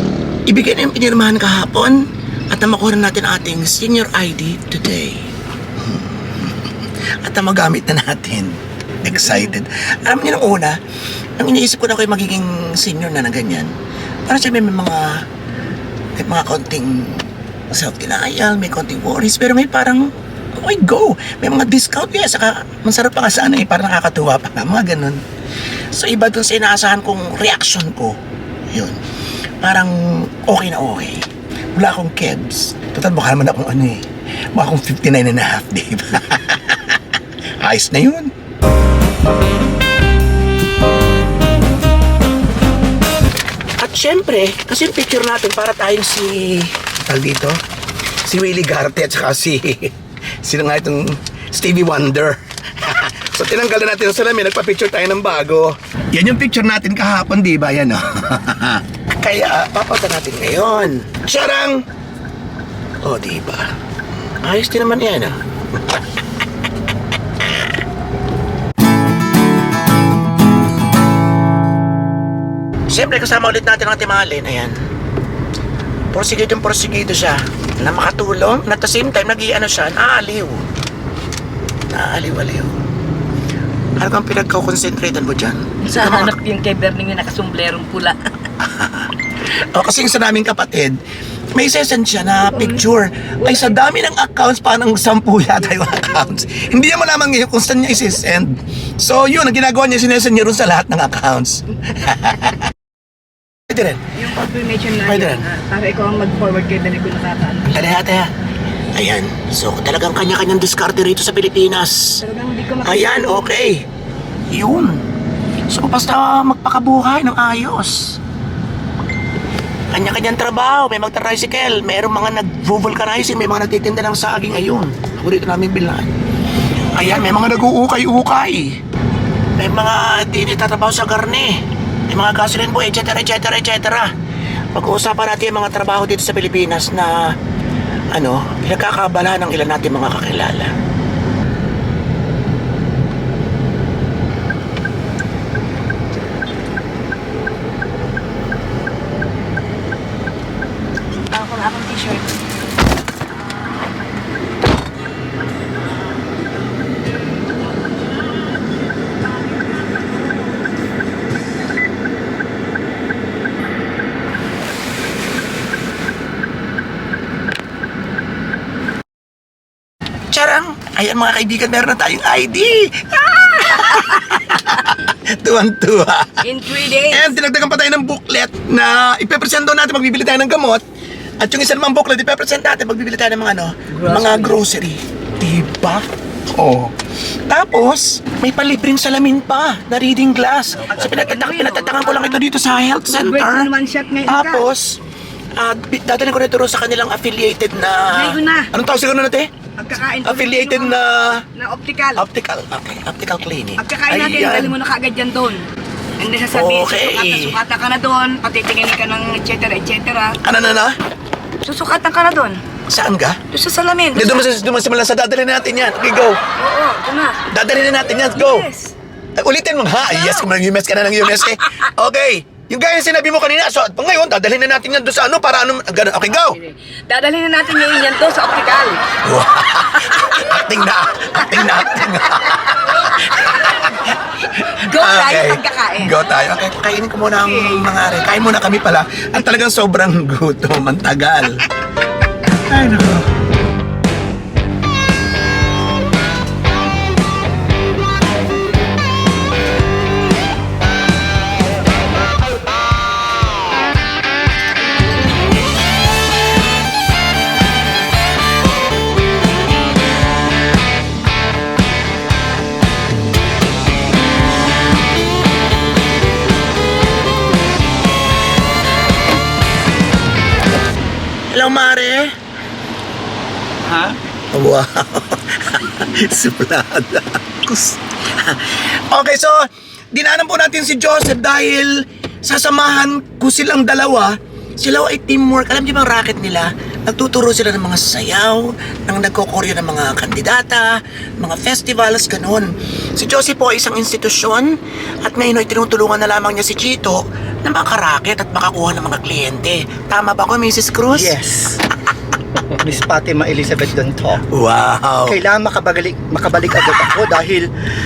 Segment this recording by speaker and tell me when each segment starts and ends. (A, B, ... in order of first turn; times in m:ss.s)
0:00.5-0:10.8 A
0:11.4-0:13.7 A
0:14.2-0:15.2 A
0:16.2-0:25.2 A
0:25.9-0:28.2 A
0:28.7-0:29.0 A
0:29.6-0:38.3 A
0:43.8-0:47.6 A
0:48.2-1:01.8 A
1:03.0-1:03.7 A
1:04.2-1:06.1 A
1:07.4-1:07.7 A
1:12.9-1:14.8 A
1:16.1-1:20.6 A
1:21.9-1:22.8 A
1:24.0-1:26.3 A
1:25.8-1:28.2 B
1:28.6-1:31.0 A
1:31.5-1:42.6 A
1:35.8-1:36.2 B
1:43.7-1:44.1 A
1:44.2-1:47.8 B
1:45.0-1:45.5 A
1:47.7-1:48.3 A
1:48.9-1:52.2 A
1:52.2-1:53.5 B
1:52.8-1:53.8 A
1:54.5-1:55.0 A
1:55.7-1:58.2 A
1:59.9-2:06.1 A
2:06.9-2:08.8 A
2:09.6-2:14.1 A
2:14.7-2:17.4 A
2:18.1-2:20.7 A
2:31.2-2:32.3 B
2:50.3-3:00.8 A
2:56.4-2:57.4 B
3:01.4-3:06.0 A
3:04.0-3:04.6 B
3:07.5-3:13.7 A
3:11.0-3:12.4 B
3:13.1-3:14.6 B
3:14.2-3:15.0 A
3:15.6-3:19.5 A
3:18.1-3:18.7 B
3:19.8-3:21.0 B
3:20.2-3:21.4 A
3:21.5-3:22.2 B
3:22.1-3:24.8 A
3:23.8-3:25.6 B
3:26.2-3:30.4 B
3:26.5-3:27.6 A
3:30.4-3:31.0 A
3:31.6-3:32.6 B
3:32.9-3:33.4 A
3:33.5-3:34.4 B
3:34.1-3:36.4 A
3:36.6-3:37.4 B
3:37.5-3:38.7 A
3:38.2-3:38.9 B
3:39.4-3:46.6 A
3:40.1-3:40.4 B
3:46.4-3:49.0 B
3:47.8-3:48.1 A
3:49.2-4:01.6 A
3:54.7-3:56.2 B
3:57.4-3:57.9 B
4:02.4-4:03.3 A
4:31.5-4:32.3 A
4:34.5-5:01.3 A
5:01.1-5:01.8 C
5:02.7-5:04.4 C
5:04.5-5:05.4 A
5:05.3-5:07.7 C
5:06.7-5:07.2 A